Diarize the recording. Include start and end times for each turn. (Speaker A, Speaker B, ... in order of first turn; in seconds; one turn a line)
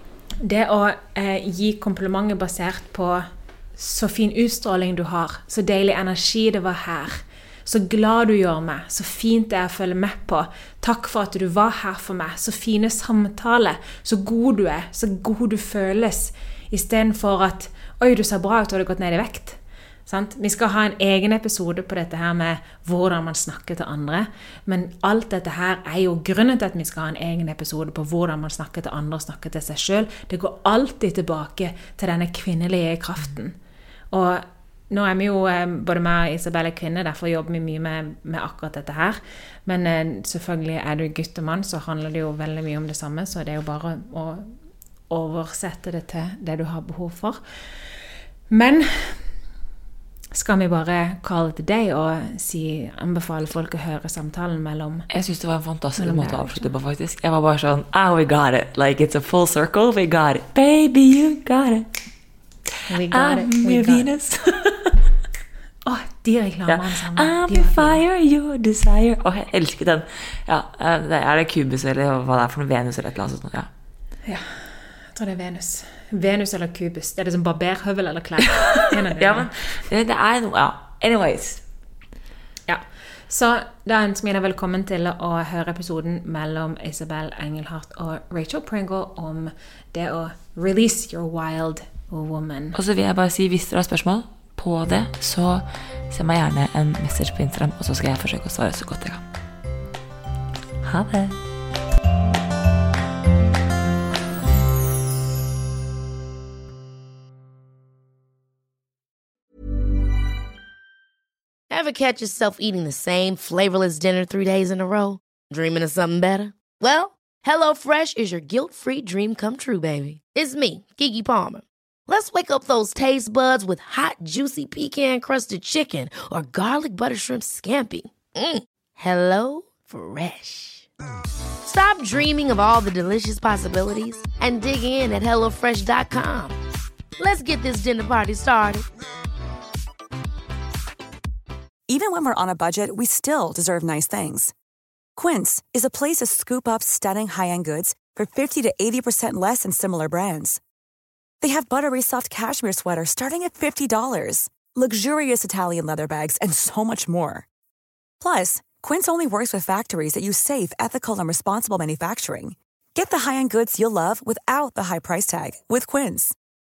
Speaker A: 0.4-33.6
Speaker A: 34.1-44.5
Speaker A: 45.1-47.4
Speaker A: 48.5-49.2
Speaker A: 50.3-55.1
Speaker B: 55.1-61.9
Speaker A: 56.0-56.7
Speaker A: 62.9-64.1
Speaker B: 63.0-65.0
Speaker A: 65.9-68.0
Speaker B: 66.7-73.7
Speaker A: 74.3-74.5
Speaker A: 75.2-79.5
Speaker B: 78.9-81.6
Speaker A: 82.7-92.8
Speaker B: 92.7-99.2
Speaker B: 100.8-101.4
Speaker C: 111.7-130.9
Speaker C: 131.7-136.6
Speaker C: 137.2-138.8
Speaker D: 141.9-144.5
Speaker D: 145.2-150.6
Speaker D: 151.4-157.5
Speaker D: 158.2-166.3